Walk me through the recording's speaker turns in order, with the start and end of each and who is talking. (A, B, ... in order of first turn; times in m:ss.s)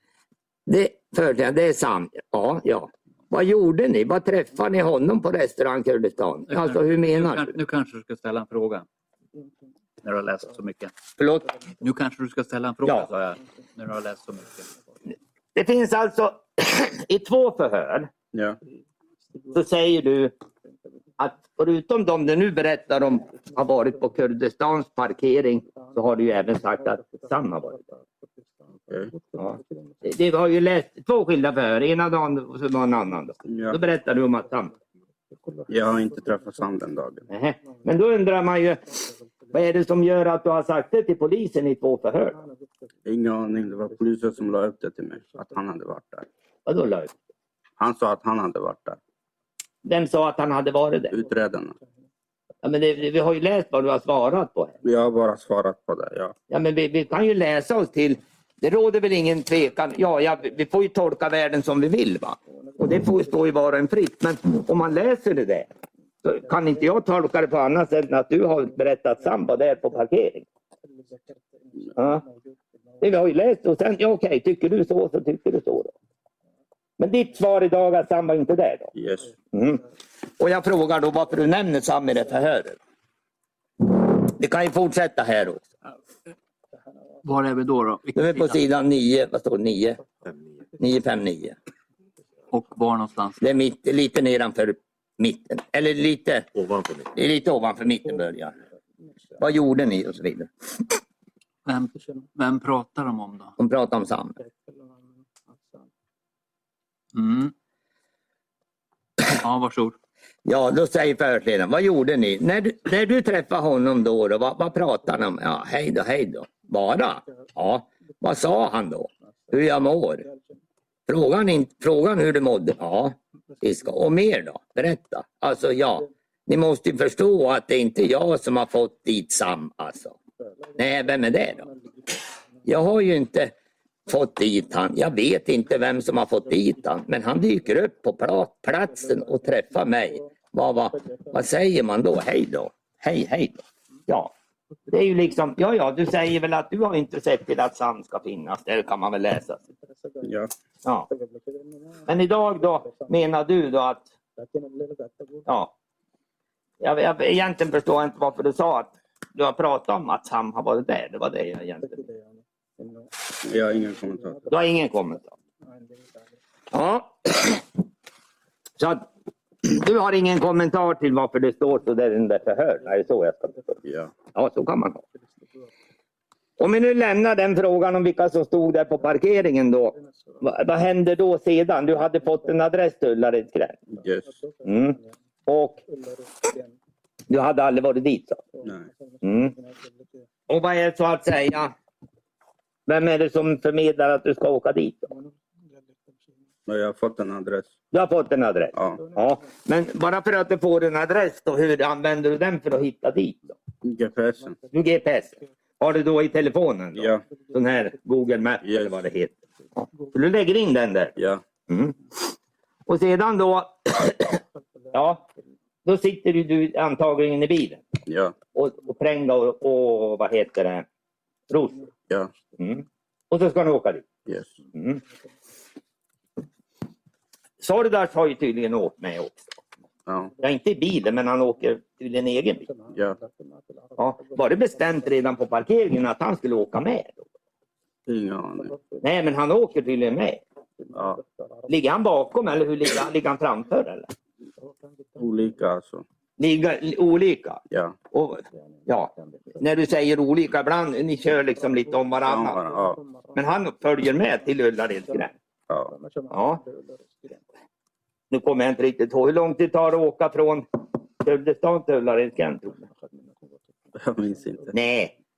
0:00.7-0:07.5 A
0:06.5-0:08.8 B
0:10.0-0:10.9 B
0:11.2-0:11.5 A
0:11.8-0:14.7 B
0:15.5-0:18.1 A
0:18.3-0:18.6 C
0:19.5-0:20.3 A
0:21.2-0:27.8 A
0:28.9-0:29.1 C
0:29.4-0:34.7 A
0:33.4-0:33.8 C
0:35.7-0:37.2 C
0:37.3-0:38.8 A
0:39.5-0:42.4 A
0:43.0-0:46.3 C
0:46.6-0:47.1 A
0:47.8-0:49.0 C
0:49.8-0:51.2 A
0:51.1-0:51.8 C
0:52.6-0:54.8 A
0:54.8-0:56.3 C
0:56.5-1:05.7 A
1:06.2-1:10.4 A
1:12.0-1:12.2 A
1:13.0-1:15.9 A
1:17.0-1:18.9 A
1:18.9-1:19.3 C
1:19.5-1:19.8 A
1:20.4-1:22.8 A
1:23.8-1:25.6 A
1:27.2-1:28.6 B
1:28.1-1:30.0 A
1:30.8-1:31.6 A
1:32.5-1:33.4 B
1:33.4-1:38.6 A
1:39.4-1:40.9 A
1:41.6-1:43.5 B
1:43.6-1:44.4 A
1:47.1-1:47.5 B
1:49.4-1:50.0 B
1:50.4-2:00.2 A
2:01.1-2:10.1 A
2:10.8-2:11.7 A
2:12.6-2:13.5 A
2:14.1-2:24.3 A
2:24.9-2:29.6 A
2:30.2-2:30.5 C
2:30.8-2:31.1 A
2:32.1-2:34.1 A
2:36.8-2:42.0 A
2:43.4-2:44.5 C
2:44.5-2:45.3 A
2:46.7-2:47.6 A
2:48.8-2:49.1 A
2:49.6-2:53.8 A
2:53.8-2:54.1 C
2:54.3-2:55.0 A
2:56.6-3:03.8 A
3:03.9-3:04.4 C
3:04.6-3:05.8 A
3:07.3-3:08.4 A
3:08.6-3:08.9 C
3:09.2-3:09.6 A
3:10.5-3:11.7 A
3:12.9-3:15.1 A
3:16.7-3:17.7 C
3:17.9-3:23.6 A
3:18.7-3:19.0 C
3:23.8-3:24.6 C
3:24.7-3:31.2 A
3:26.9-3:27.2 C
3:28.6-3:28.9 C
3:31.2-3:31.4 C
3:31.7-3:32.3 A
3:32.9-3:34.4 A
3:34.9-3:35.2 A
3:35.8-3:37.8 A
3:38.1-3:38.3 C
3:38.5-3:40.8 A
3:41.5-3:41.9 A
3:42.6-3:44.0 A
3:44.2-3:44.5 C
3:44.7-3:45.0 A
3:47.6-3:49.5 A
3:50.1-3:50.3 C
3:50.4-3:52.7 A
3:52.9-3:53.2 C
3:54.0-3:57.2 A
3:58.0-3:58.8 C
3:59.0-4:00.4 A
4:00.9-4:01.2 C
4:01.7-4:04.1 A
4:05.2-4:06.0 C
4:06.4-4:07.6 A
4:07.7-4:07.9 C
4:08.1-4:12.6 A
4:12.2-4:13.0 C
4:13.3-4:15.3 A
4:15.7-4:15.9 C
4:16.3-4:16.6 A
4:18.3-4:20.6 A
4:21.2-4:22.8 A
4:23.9-4:24.7 C
4:24.7-4:25.1 A